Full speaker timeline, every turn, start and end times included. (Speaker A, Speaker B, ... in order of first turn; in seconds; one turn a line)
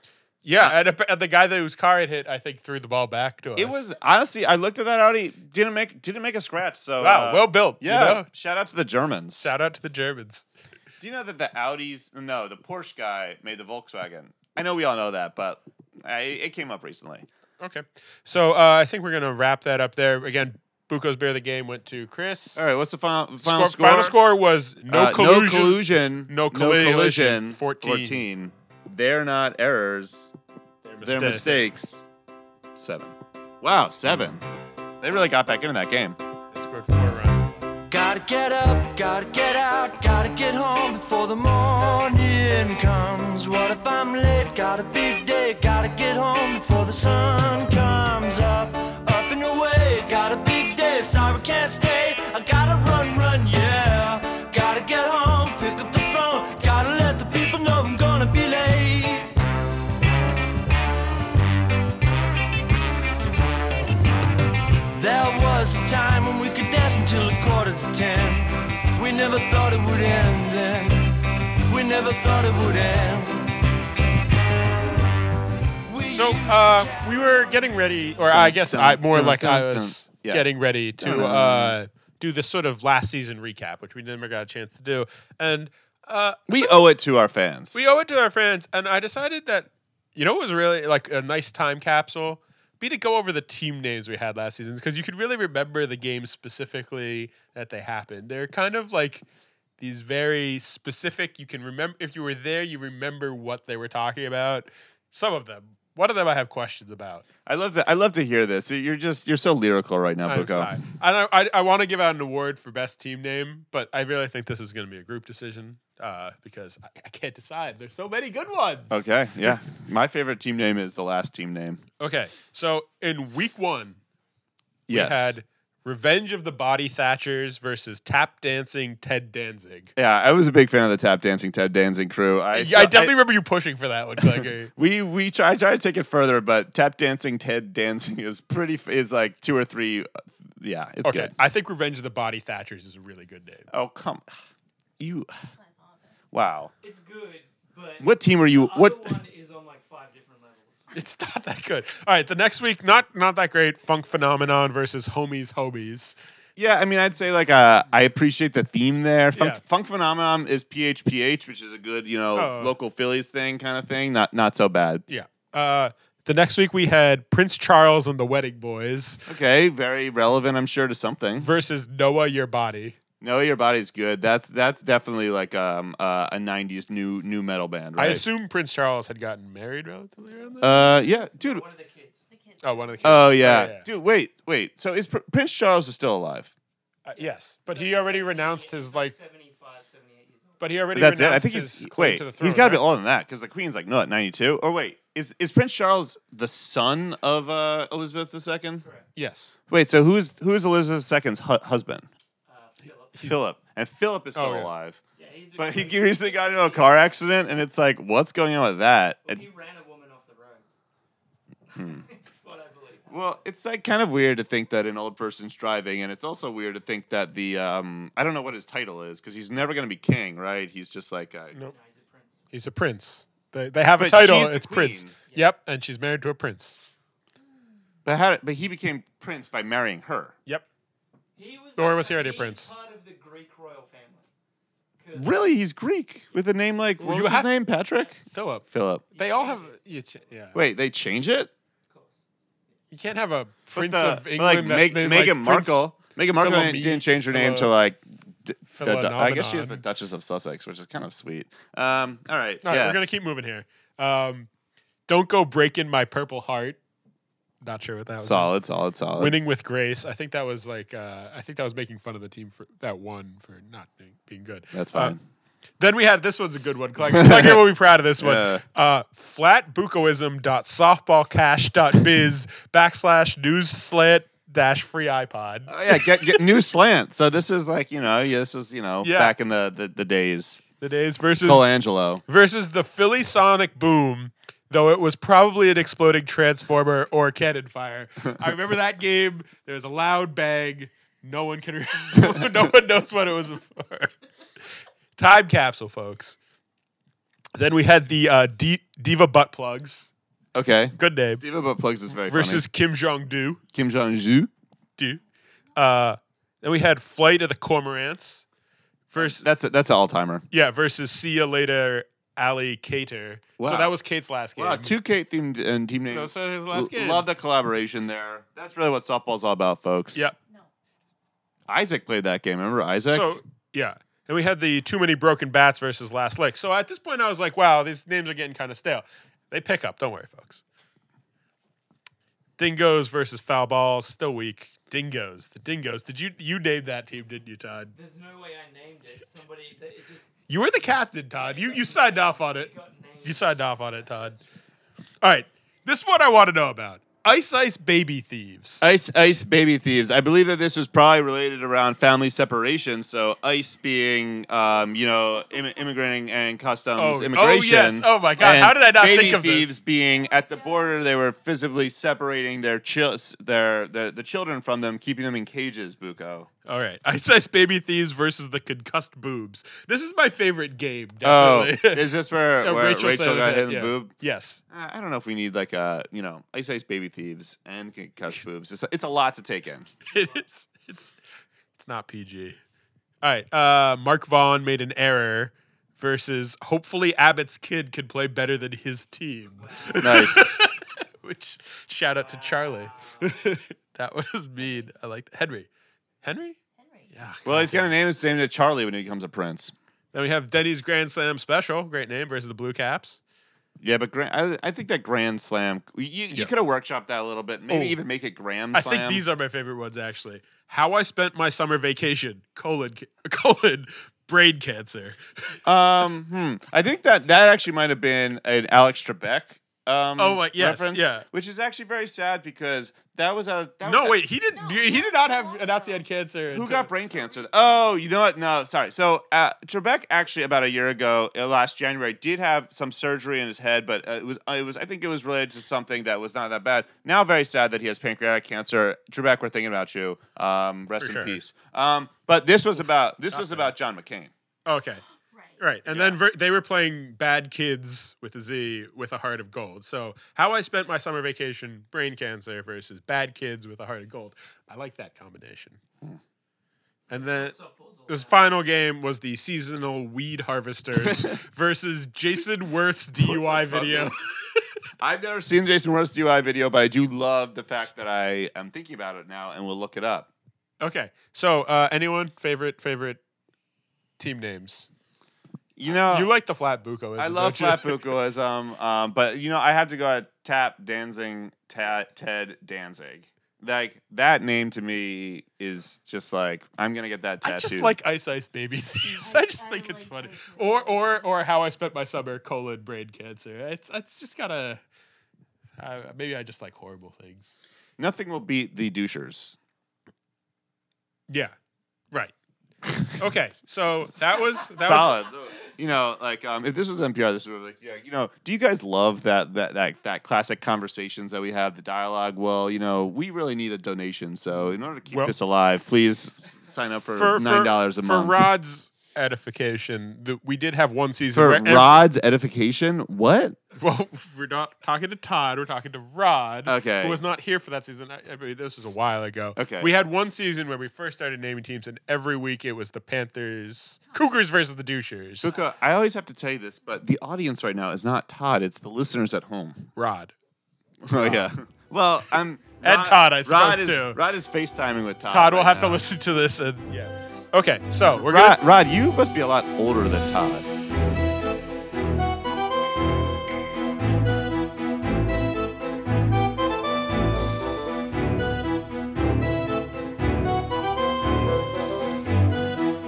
Speaker A: 0.4-3.9
Speaker B: 3.5-9.5
Speaker A: 7.0-8.3
Speaker A: 9.4-10.4
Speaker B: 11.0-17.3
Speaker A: 17.6-22.6
Speaker B: 22.6-24.2
Speaker A: 23.4-28.2
Speaker B: 24.9-30.3
Speaker A: 30.8-31.7
Speaker B: 31.0-32.0
Speaker B: 32.8-34.4
Speaker B: 35.0-36.2
Speaker A: 36.5-37.5
Speaker C: 37.9-59.3
Speaker C: 65.0-71.1
Speaker C: 71.7-73.5
Speaker C: 75.9-76.2
Speaker A: 76.1-86.8
Speaker D: 76.3-77.8
Speaker B: 78.3-81.8
Speaker B: 86.5-87.8
Speaker A: 87.7-99.2
Speaker A: 99.8-107.2
Speaker B: 107.5-110.8
Speaker A: 110.2-119.5
Speaker B: 118.9-121.8
Speaker A: 122.0-124.0
Speaker B: 124.9-125.3
Speaker A: 124.9-129.9
Speaker B: 129.9-133.2
Speaker A: 132.5-134.7
Speaker B: 134.2-141.3
Speaker A: 141.0-143.7
Speaker B: 143.7-144.3
Speaker B: 145.0-145.3
Speaker E: 145.5-146.2
Speaker B: 146.3-146.7
Speaker D: 146.8-150.9
Speaker B: 148.0-149.1
Speaker A: 150.9-156.2
Speaker B: 156.6-165.0
Speaker A: 159.3-159.6
Speaker A: 162.3-162.7
Speaker A: 165.1-169.2
Speaker B: 169.2-171.5
Speaker A: 171.4-172.9
Speaker B: 173.2-178.2
Speaker A: 177.9-180.9
Speaker B: 180.6-181.6
Speaker D: 180.9-182.3
Speaker E: 182.3-183.4
Speaker A: 182.6-183.9
Speaker B: 183.0-186.5
Speaker A: 187.0-189.1
Speaker D: 187.1-190.8
Speaker A: 190.6-192.8
Speaker B: 190.9-198.8
Speaker D: 198.8-199.1
Speaker A: 199.2-199.6
Speaker B: 199.7-202.1
Speaker D: 202.5-203.3
Speaker B: 203.2-205.0
Speaker A: 204.3-204.7
Speaker D: 205.2-207.2
Speaker B: 205.6-209.4
Speaker D: 209.2-210.7
Speaker D: 211.7-213.4
Speaker B: 211.8-212.0
Speaker B: 213.1-221.5
Speaker D: 221.6-222.5
Speaker A: 222.5-226.8
Speaker B: 223.9-225.1
Speaker D: 225.3-225.5
Speaker B: 228.0-230.3
Speaker D: 231.3-234.3
Speaker A: 231.8-232.7
Speaker D: 235.0-235.4
Speaker B: 235.1-239.0
Speaker A: 237.0-237.5
Speaker A: 238.2-240.6
Speaker D: 239.1-240.3
Speaker B: 240.5-241.5
Speaker D: 241.9-242.2
Speaker A: 242.9-247.7
Speaker B: 243.7-253.0
Speaker A: 248.7-249.8
Speaker A: 252.6-254.5
Speaker A: 255.1-256.8
Speaker A: 257.6-258.5
Speaker B: 258.2-259.4
Speaker A: 259.2-265.1
Speaker B: 264.7-265.2
Speaker A: 265.8-276.4
Speaker B: 267.1-267.7
Speaker B: 268.2-268.6
Speaker B: 275.7-280.6
Speaker A: 279.0-279.3
Speaker A: 280.8-281.7
Speaker B: 281.4-282.2
Speaker A: 282.3-294.1
Speaker B: 292.2-292.5
Speaker A: 295.2-296.4
Speaker A: 297.5-300.1
Speaker B: 300.5-302.6
Speaker A: 301.0-301.4
Speaker A: 302.2-303.6
Speaker B: 303.7-304.5
Speaker A: 305.8-308.4
Speaker A: 309.1-309.4
Speaker B: 309.1-310.4
Speaker A: 310.5-314.9
Speaker B: 313.6-313.9
Speaker B: 314.6-320.3
Speaker A: 316.1-317.2
Speaker B: 321.7-323.3
Speaker A: 323.1-330.6
Speaker A: 332.6-337.9
Speaker D: 337.9-340.3
Speaker A: 340.5-342.7
Speaker D: 341.3-344.4
Speaker A: 343.2-344.4
Speaker A: 345.2-348.9
Speaker B: 348.8-366.5
Speaker A: 356.9-359.8
Speaker A: 366.6-374.6
Speaker B: 371.2-374.1
Speaker B: 374.7-379.9
Speaker A: 380.1-381.1
Speaker D: 380.1-380.4
Speaker A: 381.8-382.6
Speaker A: 383.2-390.6
Speaker D: 389.6-390.4
Speaker B: 390.0-390.6
Speaker A: 391.2-395.7
Speaker D: 392.1-393.5
Speaker A: 396.2-396.6
Speaker E: 396.8-397.3
Speaker A: 397.1-397.9
Speaker B: 397.4-399.7
Speaker A: 400.1-403.2
Speaker B: 403.8-409.2
Speaker A: 407.7-408.0
Speaker A: 408.7-415.6
Speaker B: 415.6-424.2
Speaker A: 420.2-421.2
Speaker A: 423.8-426.9
Speaker E: 424.5-426.1
Speaker B: 426.5-444.3
Speaker E: 427.1-427.5
Speaker A: 441.0-441.4
Speaker A: 443.3-443.7
Speaker A: 444.6-445.0
Speaker E: 445.3-445.6
Speaker A: 445.6-455.8
Speaker B: 445.9-446.2
Speaker D: 457.1-458.5
Speaker A: 457.1-457.5
Speaker A: 458.1-464.6
Speaker B: 461.0-461.4
Speaker B: 463.2-464.1
Speaker B: 465.0-470.3
Speaker A: 470.8-473.2
Speaker A: 474.2-474.9
Speaker B: 475.8-476.3
Speaker A: 475.9-478.0
Speaker B: 477.2-487.9
Speaker A: 487.4-494.8
Speaker E: 489.0-491.3
Speaker A: 495.8-497.5
Speaker B: 498.0-499.6
Speaker A: 501.3-501.5
Speaker A: 503.1-505.2
Speaker B: 504.7-518.4
Speaker A: 517.1-521.9
Speaker B: 521.3-523.6
Speaker A: 523.7-535.5
Speaker B: 526.6-527.2
Speaker B: 529.5-529.9
Speaker B: 535.4-539.9
Speaker A: 540.0-540.3
Speaker B: 541.0-546.0
Speaker A: 541.1-541.5
Speaker A: 542.8-544.2
Speaker A: 545.3-548.6
Speaker B: 548.1-550.6